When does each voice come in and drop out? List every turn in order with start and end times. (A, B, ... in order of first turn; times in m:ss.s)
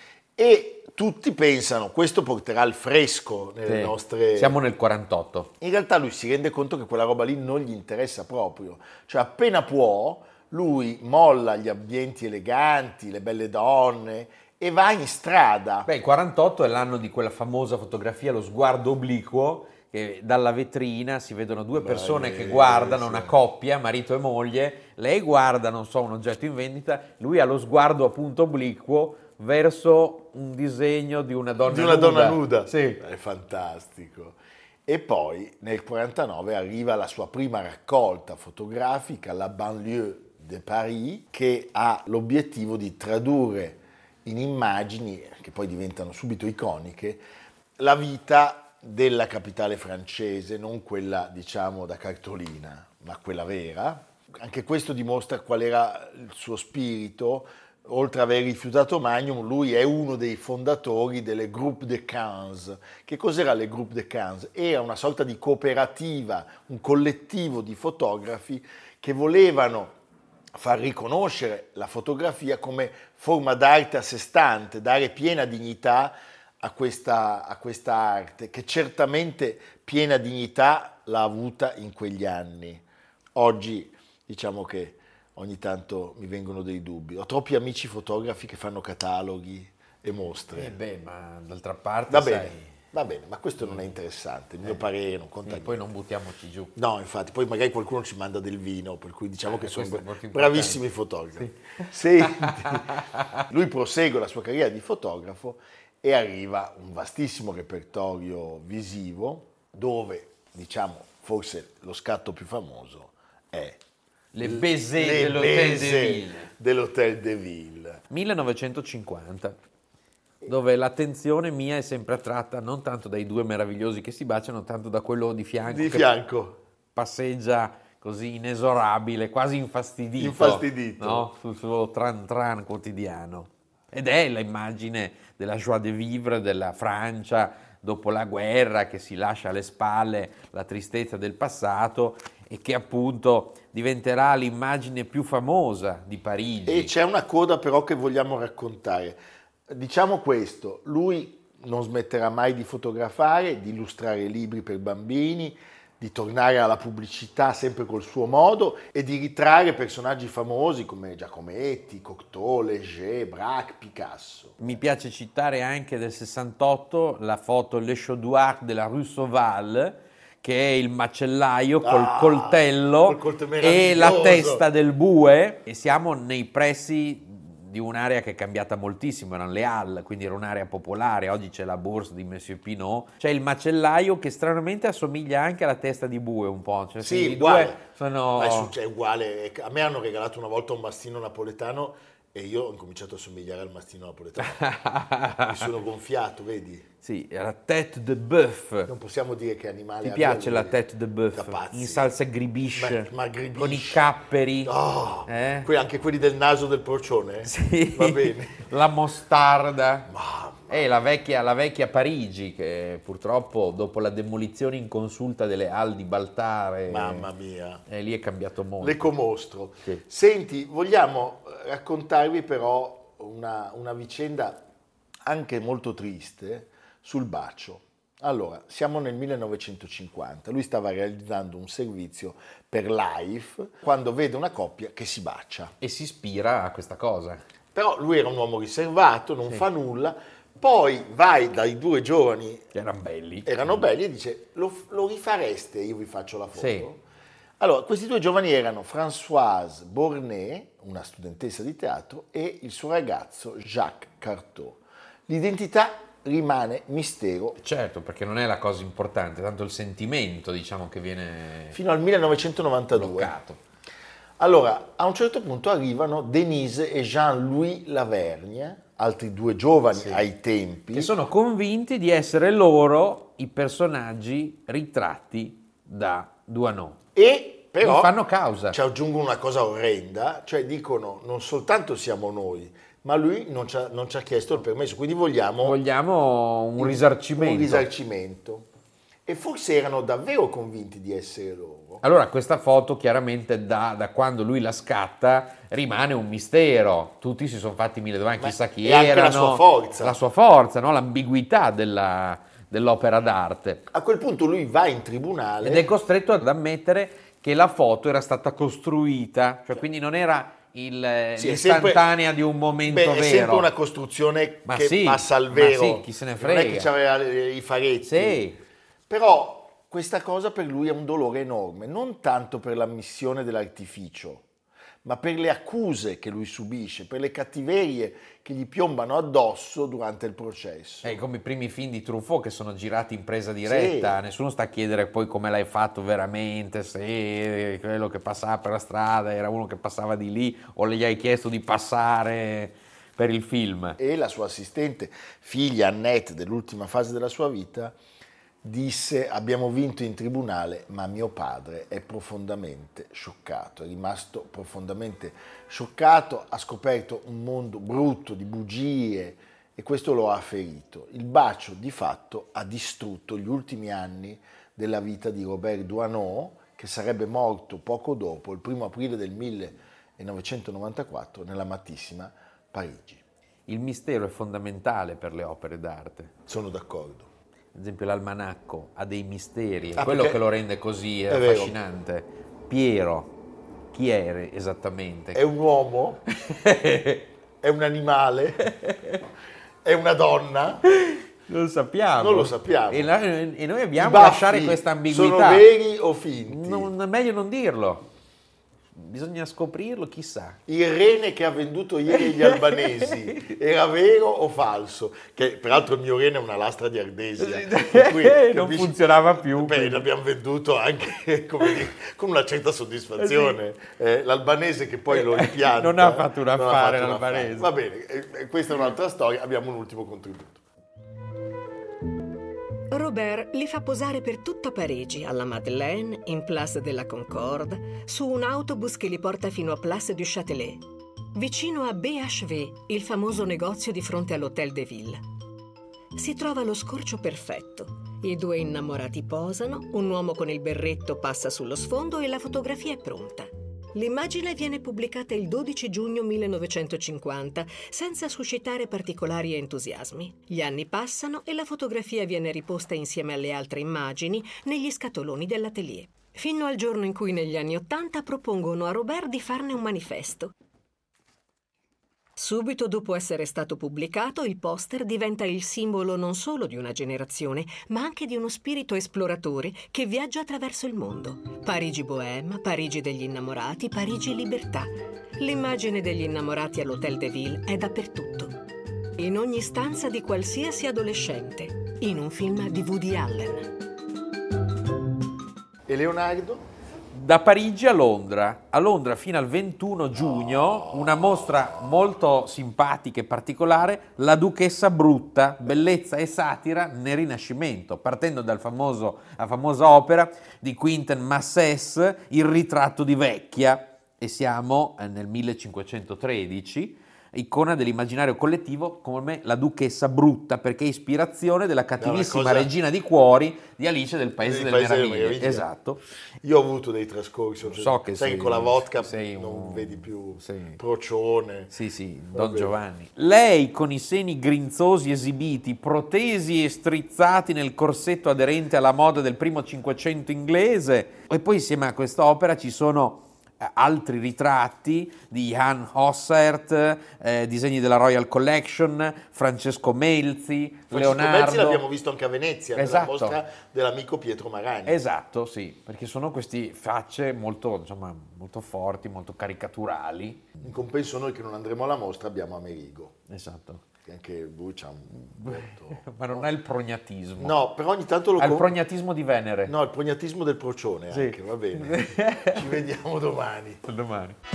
0:00.4-0:04.6 A
0:03.7-0:05.5 B
0:05.6-0:15.9 A
0:15.9-0:33.0 B
0:21.8-0:23.4 A
0:31.7-0:47.2 A
0:47.8-1:10.0 A
1:10.6-1:22.8 A
1:23.4-1:30.8 A
1:30.5-1:32.7 B
1:32.1-1:35.8 A
1:35.4-1:36.8 B
1:36.8-1:53.8 A
1:39.5-1:40.8 B
1:41.4-1:43.4 B
1:54.3-1:56.5 B
1:54.4-1:58.0 A
1:58.1-1:59.6 B
2:00.5-2:06.1 B
2:05.7-2:06.6 A
2:07.0-2:26.9 B
2:10.2-2:11.3 A
2:26.7-2:29.2 A
2:29.7-2:44.8 A
2:44.6-3:08.7 B
2:51.8-2:54.6 A
3:07.0-3:14.7 A
3:14.4-3:15.7 B
3:15.3-3:16.9 A
3:17.0-3:18.9 B
3:18.9-3:20.8 A
3:20.0-3:24.7 B
3:21.3-3:22.1 A
3:22.7-3:24.1 A
3:24.6-3:28.7 A
3:25.3-3:25.7 B
3:27.4-3:30.1 B
3:30.1-3:30.9 A
3:30.7-3:37.3 B
3:36.9-3:37.8 A
3:37.9-3:39.1 B
3:38.8-3:44.7 A
3:45.3-3:55.7 A
3:55.8-3:57.4 B
3:57.8-4:02.7 A
4:02.7-4:03.9 B
4:03.4-4:07.0 A
4:06.6-4:06.9 B
4:07.6-4:17.6 A
4:17.6-4:21.8 B
4:21.7-4:23.3 A
4:22.9-4:23.6 B
4:24.4-4:31.1 A
4:29.9-4:30.2 B
4:30.9-4:37.0 B
4:37.2-4:38.2 A
4:37.8-4:38.8 B
4:38.7-4:45.8 A
4:45.6-4:47.9 B
4:46.8-4:48.7 A
4:49.3-4:52.0 A
4:52.0-5:03.8 B
4:58.4-5:00.2 A
5:03.9-5:05.9 A
5:05.6-5:13.7 B
5:11.4-5:12.1 A
5:12.9-5:18.4 A
5:14.7-5:16.9 B
5:18.0-5:18.6 B
5:19.1-5:24.4 A
5:25.0-5:31.2 A
5:31.0-5:44.0 B
5:33.6-5:34.2 A
5:44.0-5:48.0 A
5:48.6-6:13.2 A
6:13.7-6:16.3 B
6:16.5-6:17.3 A
6:17.8-6:23.3 B
6:20.0-6:20.4 A
6:21.3-6:21.8 A
6:23.9-6:25.4 B
6:25.3-6:26.2 A
6:26.3-6:27.3 B
6:27.6-6:28.7 A
6:28.6-6:29.2 B
6:29.8-6:30.8 A
6:30.9-6:35.7 B
6:32.2-6:33.1 A
6:34.0-6:36.9 A
6:36.5-6:38.0 B
6:39.0-6:40.6 B
6:40.7-7:00.6 A
6:42.2-6:42.6 B
6:47.4-6:50.0 B
6:53.2-6:53.6 B
6:55.1-6:57.7 B
7:02.9-7:15.2 C
7:16.2-7:40.5 C
7:42.4-7:58.6 C
7:59.2-8:03.7 C
8:05.9-8:06.6 A
8:07.1-8:36.0 B
8:10.2-8:12.1 A
8:32.0-8:32.7 A
8:34.4-8:35.7 A
8:36.4-8:41.7 A
8:37.6-8:40.8 B
8:41.7-9:01.8 B
8:42.3-8:42.7 A
9:00.9-9:05.0 A
9:02.8-9:03.4 B
9:04.9-9:10.5 B
9:10.6-9:13.2 A
9:13.3-9:13.8 B
9:14.0-9:16.4 A
9:15.3-9:17.6 B
9:17.4-9:18.8 A
9:18.4-9:19.7 B
9:19.7-9:23.8 A
9:21.1-9:22.8 B
9:23.8-9:24.4 B